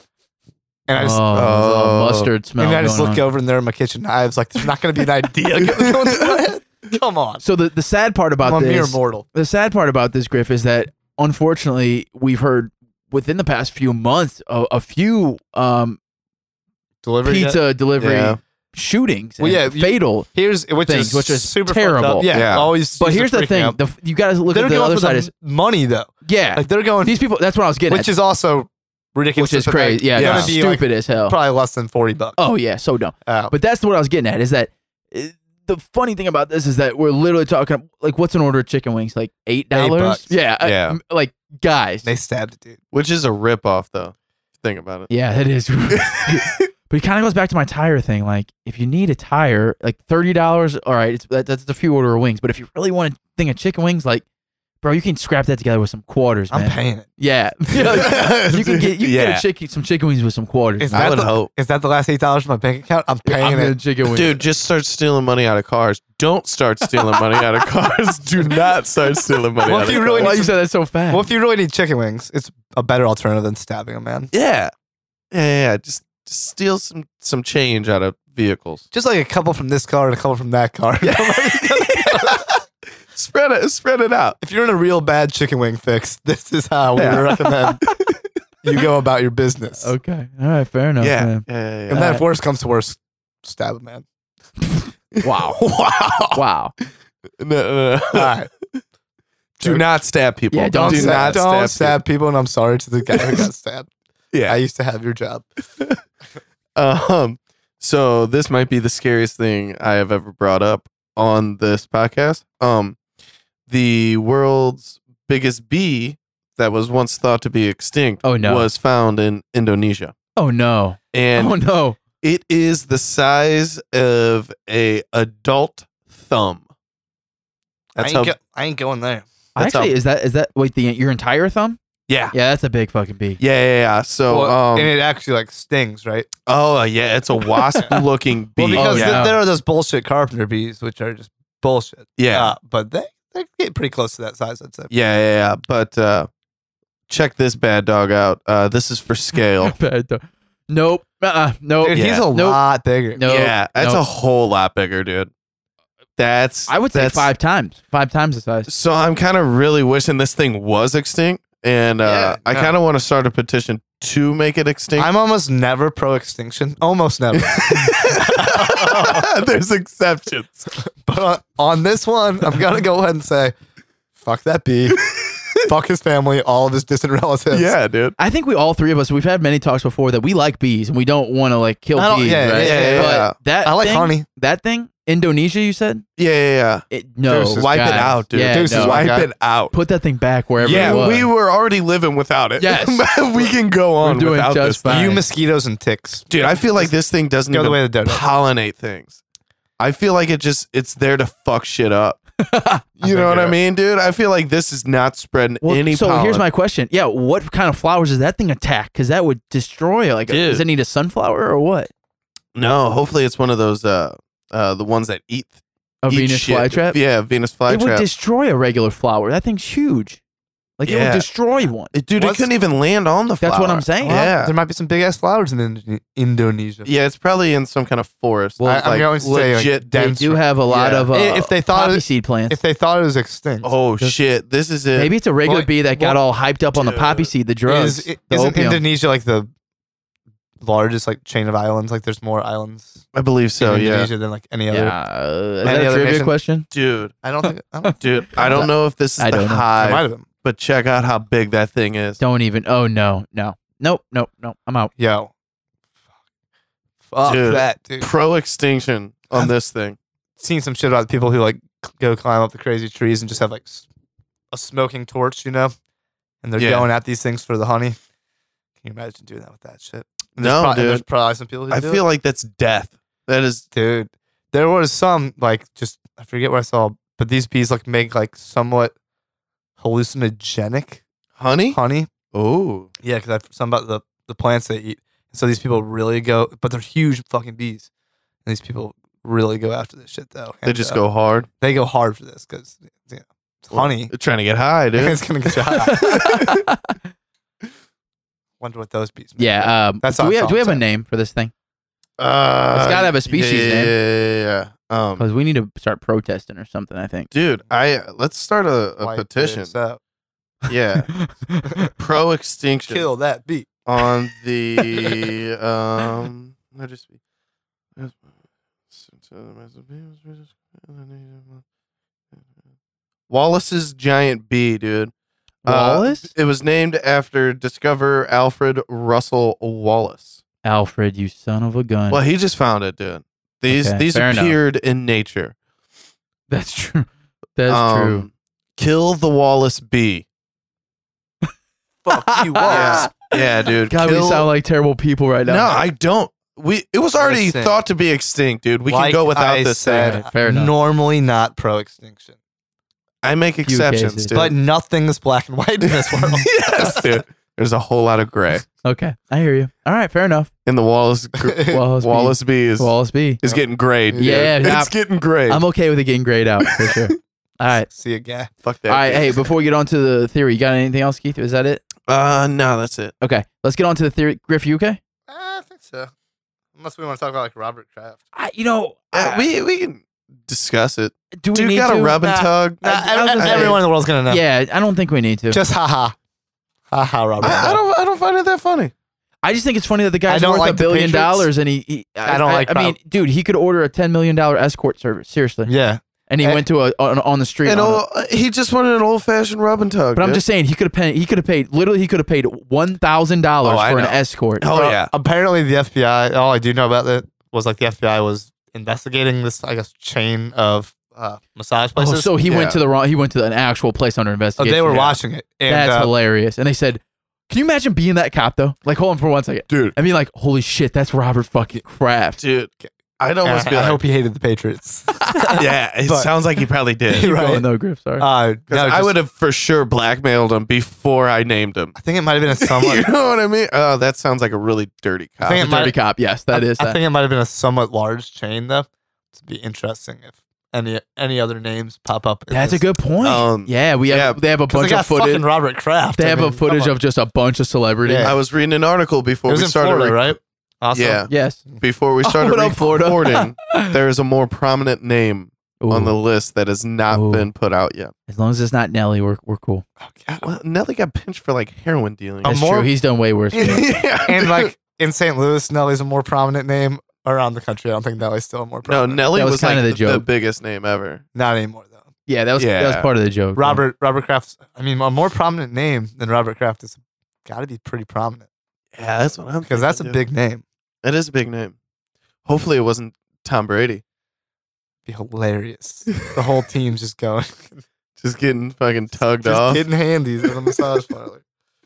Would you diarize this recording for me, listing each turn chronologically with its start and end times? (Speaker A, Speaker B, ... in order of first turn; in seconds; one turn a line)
Speaker A: 0.9-1.2
Speaker B: 0.9-3.2
Speaker C: 1.3-2.3
Speaker A: 2.6-7.4
Speaker B: 7.4-16.0
Speaker A: 8.4-9.2
Speaker A: 17.0-18.1
Speaker B: 17.2-22.3
Speaker C: 18.0-18.4
Speaker A: 19.4-23.8
Speaker C: 22.3-22.7
Speaker B: 23.0-25.3
Speaker A: 24.5-27.2
Speaker B: 26.2-28.1
Speaker A: 27.9-32.4
Speaker B: 29.4-31.4
Speaker C: 30.1-30.5
Speaker B: 32.4-42.1
Speaker A: 33.2-33.5
Speaker A: 39.7-40.4
Speaker C: 40.6-41.0
Speaker A: 42.0-42.8
Speaker C: 42.9-45.1
Speaker B: 45.1-54.2
Speaker C: 46.1-46.6
Speaker B: 54.8-61.2
Speaker A: 56.5-57.1
Speaker C: 57.7-59.4
Speaker A: 60.8-63.7
Speaker C: 60.9-61.5
Speaker B: 63.2-64.4
Speaker C: 64.1-70.4
Speaker B: 66.8-67.4
Speaker A: 69.6-70.5
Speaker B: 69.8-71.3
Speaker A: 71.1-74.3
Speaker C: 74.3-74.7
Speaker C: 75.3-78.8
Speaker A: 78.9-82.4
Speaker C: 81.6-82.6
Speaker C: 83.1-84.4
Speaker A: 84.4-87.8
Speaker C: 87.0-88.0
Speaker A: 88.6-89.9
Speaker B: 89.8-91.4
Speaker C: 91.0-92.2
Speaker A: 91.9-94.0
Speaker B: 94.8-95.7
Speaker C: 95.1-96.4
Speaker B: 96.3-96.7
Speaker C: 97.4-98.8
Speaker A: 98.1-98.5
Speaker C: 99.6-102.0
Speaker B: 100.5-101.4
Speaker A: 100.7-103.9
Speaker C: 104.3-104.6
Speaker A: 104.5-105.5
Speaker C: 106.8-113.0
Speaker C: 113.7-120.1
Speaker B: 118.2-118.7
Speaker B: 120.3-122.0
Speaker C: 121.1-121.6
Speaker C: 122.2-126.6
Speaker C: 128.0-128.3
Speaker A: 128.0-129.3
Speaker C: 129.6-129.9
Speaker B: 129.6-131.8
Speaker C: 132.1-132.3
Speaker B: 132.3-133.4
Speaker C: 133.4-134.9
Speaker A: 134.3-136.3
Speaker C: 136.4-139.3
Speaker A: 138.6-144.9
Speaker B: 138.7-139.4
Speaker C: 142.2-142.5
Speaker C: 144.9-146.3
Speaker C: 147.1-149.7
Speaker B: 149.6-152.6
Speaker A: 151.8-153.2
Speaker C: 151.9-152.3
Speaker B: 153.1-154.0
Speaker C: 153.2-155.3
Speaker C: 156.2-157.3
Speaker B: 156.7-158.7
Speaker C: 158.7-165.1
Speaker A: 162.0-162.7
Speaker A: 165.0-169.3
Speaker C: 167.3-170.7
Speaker A: 170.8-173.5
Speaker A: 174.2-175.0
Speaker C: 175.0-175.7
Speaker A: 175.6-177.7
Speaker C: 177.5-178.1
Speaker B: 178.2-186.0
Speaker A: 181.9-184.2
Speaker C: 182.5-183.3
Speaker C: 186.2-186.8
Speaker B: 186.9-191.3
Speaker A: 187.2-189.3
Speaker C: 187.6-189.7
Speaker C: 190.6-195.2
Speaker A: 190.7-191.1
Speaker B: 192.6-193.1
Speaker B: 194.0-195.2
Speaker A: 194.8-196.9
Speaker C: 196.3-199.2
Speaker A: 197.5-198.2
Speaker C: 199.8-202.2
Speaker B: 202.4-202.8
Speaker C: 203.0-206.4
Speaker A: 203.0-203.6
Speaker B: 205.6-211.9
Speaker C: 210.3-210.6
Speaker C: 212.5-215.6
Speaker B: 216.0-217.0
Speaker C: 216.1-218.0
Speaker B: 217.7-220.2
Speaker B: 220.8-221.9
Speaker C: 220.9-221.3
Speaker C: 221.9-224.5
Speaker A: 222.2-222.5
Speaker B: 223.4-224.2
Speaker A: 224.0-226.9
Speaker C: 226.8-230.1
Speaker A: 228.6-233.7
Speaker B: 229.9-232.6
Speaker C: 233.6-235.1
Speaker B: 234.9-238.8
Speaker A: 235.4-236.2
Speaker C: 236.7-237.3
Speaker A: 237.7-239.5
Speaker A: 240.6-243.0
Speaker C: 243.1-244.1
Speaker A: 243.6-244.9
Speaker B: 244.7-246.7
Speaker A: 245.6-246.3
Speaker C: 246.7-247.1
Speaker A: 247.2-248.7
Speaker B: 247.8-249.7
Speaker C: 248.0-252.2
Speaker A: 249.7-250.2
Speaker B: 252.2-254.9
Speaker A: 255.0-255.3
Speaker A: 257.1-258.1
Speaker C: 257.2-260.0
Speaker A: 260.4-263.9
Speaker A: 264.5-265.7
Speaker A: 266.4-268.0
Speaker C: 266.6-266.9
Speaker A: 268.8-272.0
Speaker C: 270.4-271.0
Speaker C: 271.7-273.6
Speaker A: 273.7-278.9
Speaker A: 279.8-281.0
Speaker C: 281.4-281.8
Speaker A: 281.7-282.1
Speaker C: 282.3-282.9
Speaker A: 283.0-287.9
Speaker A: 288.4-291.0
Speaker C: 290.6-291.5
Speaker A: 291.6-294.1
Speaker C: 293.7-295.2
Speaker A: 294.9-296.4
Speaker C: 295.8-296.6
Speaker B: 295.8-296.9
Speaker A: 298.6-300.8
Speaker B: 299.4-301.5
Speaker C: 302.2-305.2
Speaker B: 302.7-303.9
Speaker B: 305.2-307.3
Speaker C: 307.3-309.7
Speaker A: 309.0-310.0
Speaker C: 310.7-311.1
Speaker B: 311.1-311.9
Speaker C: 311.9-313.1
Speaker A: 312.9-313.7
Speaker C: 313.9-317.1
Speaker C: 317.9-318.2
Speaker C: 318.9-321.6
Speaker C: 323.3-325.1
Speaker B: 325.6-326.3
Speaker C: 325.6-330.4
Speaker B: 330.6-332.2
Speaker C: 332.1-335.5
Speaker B: 333.7-334.6
Speaker B: 336.5-338.2
Speaker C: 337.7-340.2
Speaker A: 342.0-343.1
Speaker B: 342.1-345.8
Speaker C: 342.6-344.5
Speaker C: 345.4-350.2
Speaker A: 347.2-347.8
Speaker A: 348.9-352.3
Speaker B: 350.0-350.7
Speaker C: 353.2-354.6
Speaker B: 353.6-354.4
Speaker A: 354.3-357.1
Speaker C: 355.8-358.7
Speaker B: 358.8-360.5
Speaker C: 360.6-365.6
Speaker B: 361.7-363.4
Speaker A: 363.4-364.5
Speaker B: 364.2-367.9
Speaker C: 366.8-367.1
Speaker A: 367.9-368.5
Speaker C: 368.6-369.4
Speaker B: 368.9-371.8
Speaker C: 372.1-373.1
Speaker B: 373.2-375.0
Speaker A: 375.3-376.1
Speaker A: 376.7-378.2
Speaker B: 378.3-379.5
Speaker C: 379.1-383.8
Speaker B: 381.4-385.6
Speaker A: 382.8-384.4
Speaker A: 385.5-386.1
Speaker A: 386.9-387.8
Speaker C: 387.4-388.9
Speaker B: 389.4-395.7
Speaker A: 390.3-391.5
Speaker A: 392.2-392.9
Speaker A: 395.6-396.6
Speaker B: 396.3-398.0
Speaker C: 397.6-400.4
Speaker B: 400.1-404.6
Speaker C: 403.6-405.1
Speaker A: 404.6-412.3
Speaker B: 411.9-422.4
Speaker C: 412.4-412.8
Speaker A: 414.6-416.1
Speaker C: 419.7-419.9
Speaker C: 422.4-424.0
Speaker A: 423.4-426.3
Speaker B: 425.2-425.6
Speaker C: 425.5-427.3
Speaker A: 427.1-427.6
Speaker B: 427.1-428.2
Speaker A: 428.2-429.1
Speaker C: 428.7-431.9
Speaker A: 431.9-433.1
Speaker C: 432.6-435.8
Speaker A: 435.4-436.0
Speaker B: 435.5-437.0
Speaker A: 436.5-442.8
Speaker B: 442.5-445.5
Speaker C: 443.2-444.4
Speaker A: 444.7-446.9
Speaker B: 446.1-448.3
Speaker A: 448.0-448.4
Speaker C: 448.2-450.3
Speaker A: 449.5-451.8
Speaker C: 450.9-458.1
Speaker B: 451.3-451.6
Speaker B: 452.2-454.0
Speaker B: 455.8-456.1
Speaker B: 457.1-457.5
Speaker B: 458.3-459.8
Speaker A: 460.0-460.5
Speaker C: 460.4-462.6
Speaker A: 462.4-462.9
Speaker B: 462.4-463.9
Speaker A: 463.5-469.3
Speaker C: 463.6-464.7
Speaker C: 468.8-471.2
Speaker B: 469.3-470.2
Speaker A: 471.3-472.1
Speaker B: 472.3-473.8
Speaker C: 472.6-473.1
Speaker A: 473.5-478.5
Speaker C: 478.9-480.2
Speaker A: 479.6-480.6
Speaker C: 481.0-481.7
Speaker C: 482.4-484.0
Speaker A: 485.1-487.8
Speaker C: 488.2-489.9
Speaker A: 489.1-491.4